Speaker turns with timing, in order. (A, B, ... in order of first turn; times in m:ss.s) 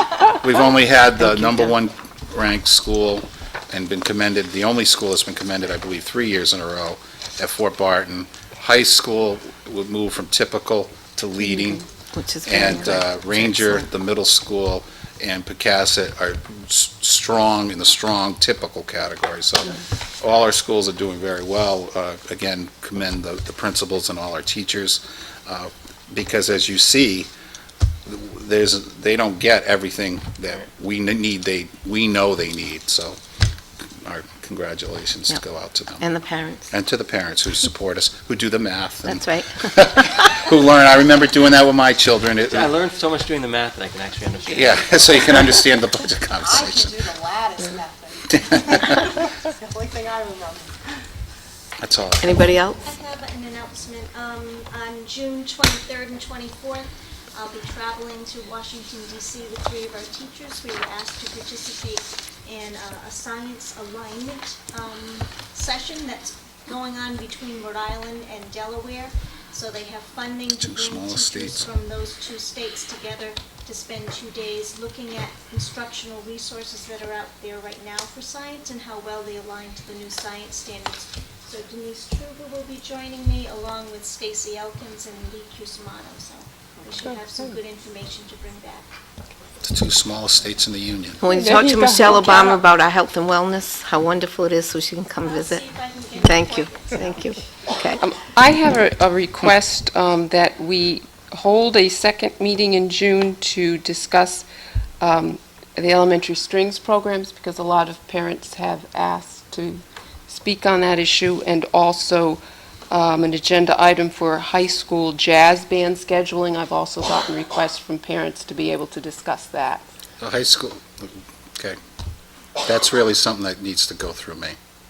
0:00.3-0:11.9 A
0:01.3-0:01.7 B
0:11.5-0:13.8 B
0:12.4-0:27.3 A
0:28.1-0:33.2 A
0:34.0-0:36.1 A
0:36.0-0:36.7 B
0:36.7-0:42.8 A
0:39.0-0:40.3 B
0:42.5-0:45.5 C
0:44.5-0:46.9 A
0:46.4-0:50.8 D
0:51.8-0:52.5 A
0:52.2-0:52.8 B
0:52.8-1:28.9 E
1:10.5-1:11.7 A
1:29.6-1:31.2 A
1:31.2-1:35.6 B
1:31.3-1:32.6 F
1:35.2-1:37.3 E
1:36.2-1:38.0 B
1:38.0-1:44.5 F
1:45.0-1:59.8 F
2:00.2-2:01.8 A
2:02.6-2:04.6 A